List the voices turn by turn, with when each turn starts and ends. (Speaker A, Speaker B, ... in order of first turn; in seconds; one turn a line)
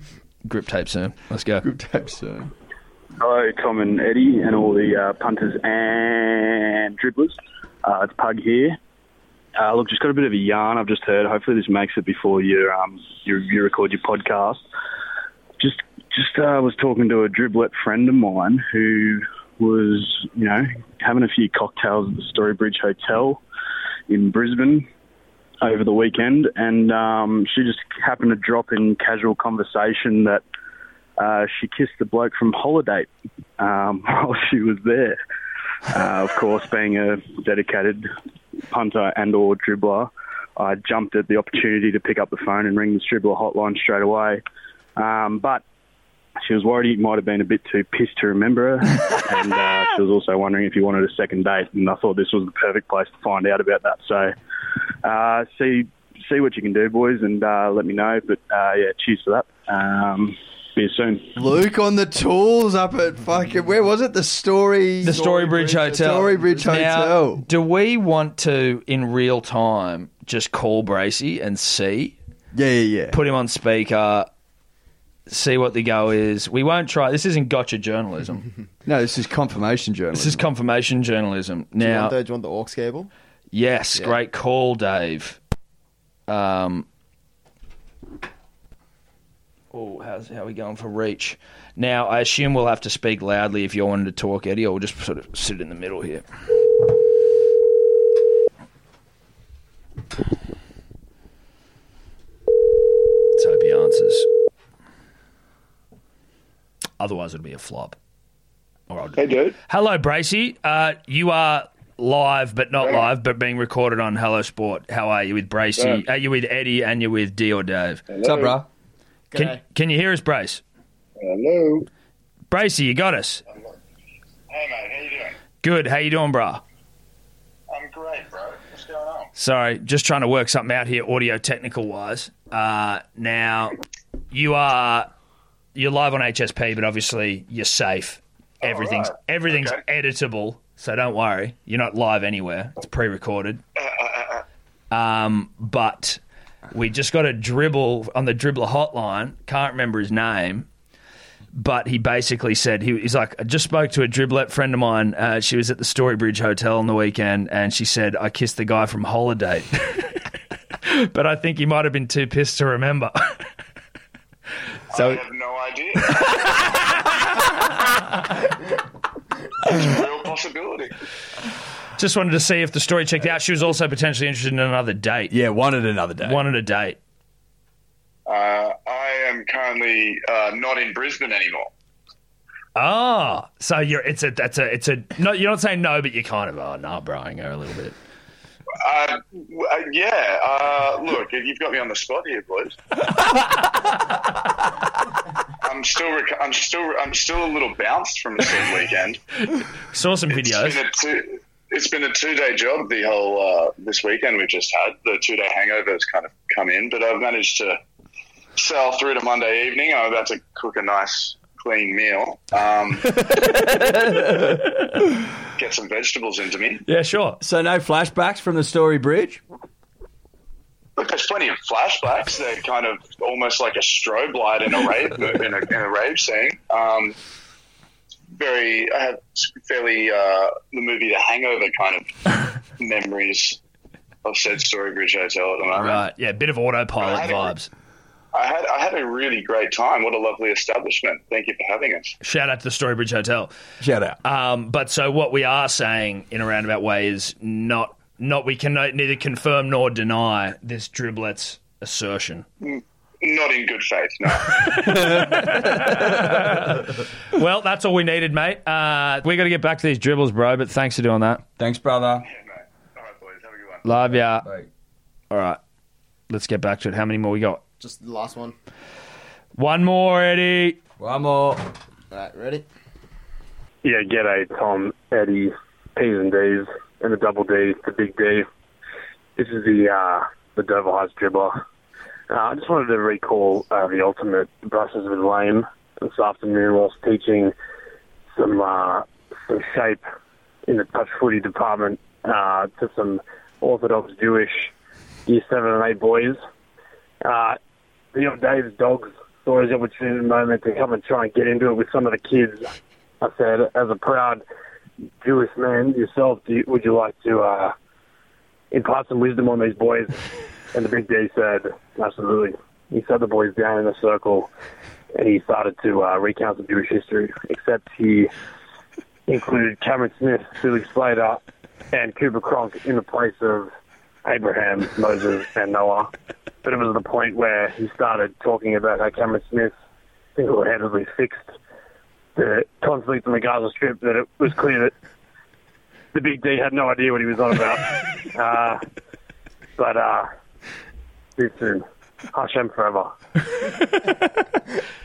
Speaker A: 0.5-1.7
Speaker B: 1.6-2.5
Speaker C: 3.2-8.8
Speaker C: 9.6-14.7
Speaker C: 15.6-23.4
Speaker C: 24.1-24.9
Speaker C: 25.6-30.4
Speaker C: 31.2-35.2
Speaker C: 35.9-38.1
Speaker C: 38.7-44.4
Speaker C: 45.0-45.6
Speaker C: 46.4-54.3
Speaker C: 55.0-61.3
Speaker B: 61.4-67.5
Speaker A: 65.0-72.2
Speaker B: 72.5-73.2
Speaker A: 73.1-74.3
Speaker A: 75.3-78.5
Speaker B: 78.9-80.5
Speaker A: 80.1-82.1
Speaker D: 81.8-83.1
Speaker A: 83.5-85.4
Speaker A: 86.3-86.9
Speaker A: 89.7-96.2
Speaker A: 103.3-104.3
Speaker A: 107.0-108.0
Speaker A: 108.9-118.0
Speaker E: 109.2-109.5
Speaker B: 118.2-118.7
Speaker D: 119.3-119.6
Speaker A: 119.3-120.6
Speaker E: 121.2-121.8
Speaker A: 122.5-123.4
Speaker E: 124.5-125.3
Speaker A: 125.6-126.6
Speaker E: 127.7-129.3
Speaker A: 129.3-133.8
Speaker A: 134.3-135.1
Speaker A: 135.8-143.6
Speaker E: 138.6-139.8
Speaker E: 143.8-144.4
Speaker A: 144.9-146.2
Speaker A: 146.7-150.7
Speaker A: 151.5-160.1
Speaker A: 160.9-163.4
Speaker E: 164.9-166.3
Speaker A: 164.9-165.2
Speaker E: 169.7-170.9
Speaker A: 172.0-175.3
Speaker B: 175.3-176.4
Speaker A: 176.2-177.0
Speaker E: 178.3-181.7
Speaker A: 182.8-188.0
Speaker E: 188.9-192.7
Speaker A: 193.5-193.8
Speaker E: 195.7-199.2
Speaker A: 199.9-200.8
Speaker E: 200.3-207.8
Speaker E: 208.6-213.1
Speaker B: 213.3-214.5
Speaker E: 215.6-216.8
Speaker A: 216.9-217.4
Speaker B: 217.4-219.4
Speaker E: 221.0-227.2
Speaker E: 228.3-232.1
Speaker E: 232.8-233.6
Speaker E: 234.2-236.1
Speaker A: 235.8-237.7
Speaker E: 237.0-237.5
Speaker E: 238.3-242.1
Speaker A: 242.2-243.5
Speaker B: 243.8-244.2
Speaker A: 244.2-252.5
Speaker E: 252.6-254.4
Speaker A: 254.7-261.4
Speaker B: 254.9-256.4
Speaker B: 261.6-262.3
Speaker E: 262.3-263.8
Speaker A: 263.9-264.5
Speaker B: 264.4-264.7
Speaker A: 265.3-265.6
Speaker A: 266.3-267.6
Speaker D: 267.8-268.6
Speaker A: 269.6-270.8
Speaker B: 271.0-271.7
Speaker D: 272.1-272.6
Speaker F: 273.8-278.5
Speaker F: 279.4-281.6
Speaker F: 282.3-287.5
Speaker F: 288.3-290.0
Speaker F: 290.7-294.7
Speaker F: 295.3-296.4
Speaker F: 297.2-297.6
Speaker F: 298.1-302.7
Speaker F: 303.2-304.4
Speaker F: 305.2-307.7
Speaker F: 308.7-310.1
Speaker F: 310.7-314.5
Speaker F: 315.2-318.3
Speaker F: 319.3-321.4
Speaker F: 321.9-323.7
Speaker F: 324.2-326.1
Speaker F: 326.6-329.7
Speaker F: 330.4-331.5
Speaker F: 332.4-334.9
Speaker F: 336.1-338.8
Speaker F: 339.8-340.3
Speaker F: 341.4-343.1